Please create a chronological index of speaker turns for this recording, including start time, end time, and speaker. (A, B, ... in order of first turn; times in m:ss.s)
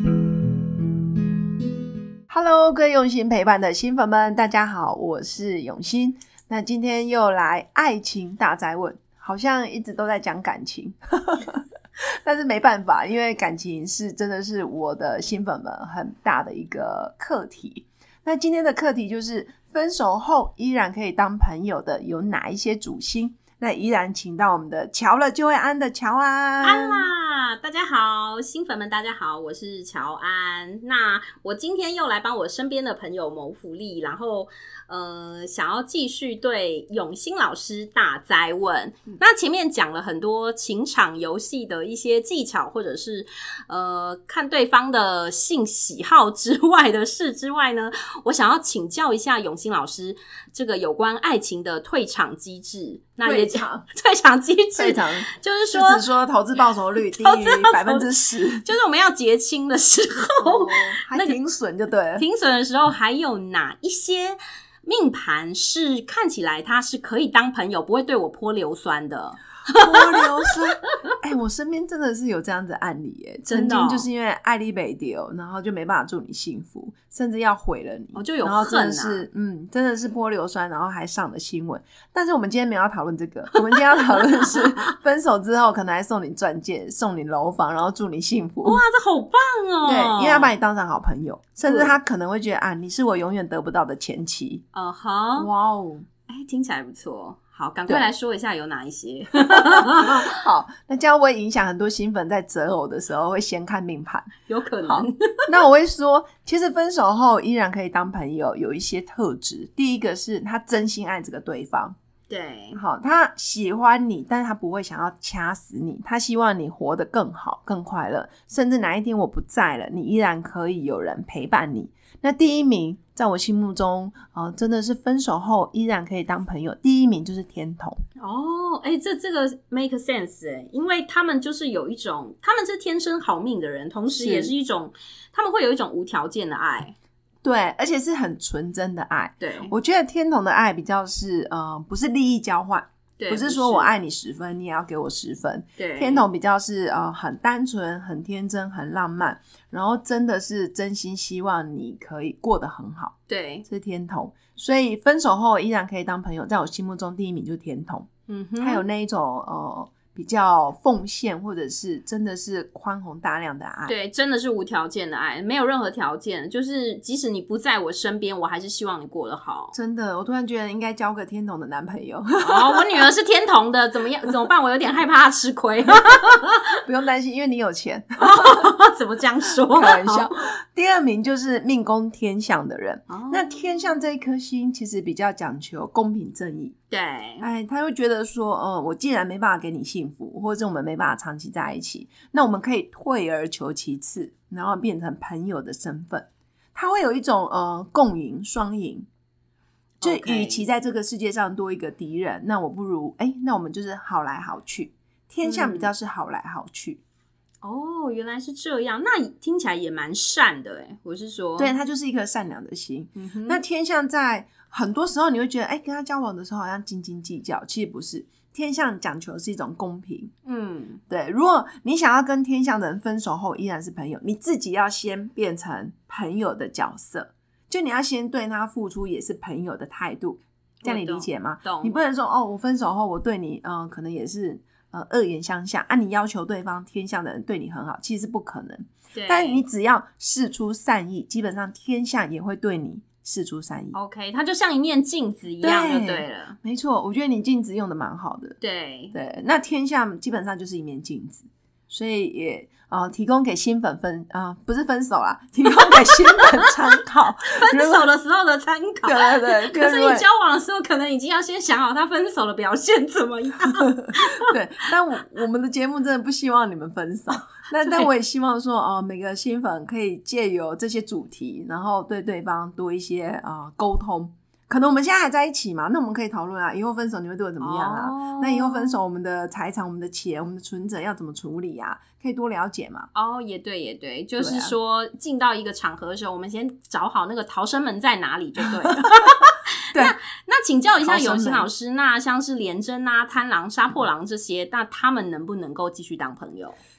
0:02.3-0:11.6 A
0:12.2-0:27.1 A
0:26.6-0:56.1 B
0:53.2-0:53.8 A
0:54.8-0:58.6 A
0:57.0-1:01.4 B
1:00.4-1:02.2 A
1:02.2-1:10.6 B
1:09.8-1:28.8 A
1:13.5-1:14.1 B
1:18.2-1:19.3 B
1:23.9-1:24.6 B
1:28.6-1:30.6 B
1:29.8-1:34.6 A
1:31.7-1:32.0 B
1:34.7-1:35.5 B
1:35.4-1:36.1 A
1:36.3-1:40.3 B
1:39.6-1:44.3 A
1:44.5-1:45.1 B
1:44.8-1:52.0 A
1:52.3-1:52.8 B
1:52.8-2:08.0 A
2:08.2-2:17.0 B
2:14.1-2:14.5 A
2:17.4-2:33.1 A
2:19.4-2:19.7 B
2:23.2-2:23.9 B
2:25.8-2:26.3 B
2:33.3-2:33.7 B
2:33.7-2:38.1 A
2:38.3-2:38.8 B
2:38.6-2:44.0 A
2:43.9-2:49.8 B
2:49.7-2:53.1 A
2:52.4-2:56.7 B
2:56.8-2:58.7 A
2:58.2-3:00.3 B
2:59.7-3:06.8 A
3:03.1-3:03.6 B
3:06.9-3:07.4 B
3:07.4-3:19.1 A
3:20.0-3:20.6 B
3:20.0-3:27.0 A
3:25.4-3:25.9 B
3:27.6-3:31.7 B
3:31.6-3:40.3 A
3:33.2-3:33.6 B
3:40.5-3:41.0 B
3:41.1-4:04.0 A
3:50.8-3:52.0 B
3:59.2-3:59.6 B
4:03.9-4:06.6 B
4:05.6-4:08.6 A
4:08.6-4:09.2 B
4:09.1-4:18.1 A
4:15.7-4:16.9 B
4:17.5-4:24.5 B
4:19.0-4:20.3 A
4:24.5-4:43.1 A
4:27.8-4:28.1 B
4:37.6-4:39.0 B
4:43.1-4:56.8 B
4:44.4-4:44.8 A
4:51.0-4:51.7 A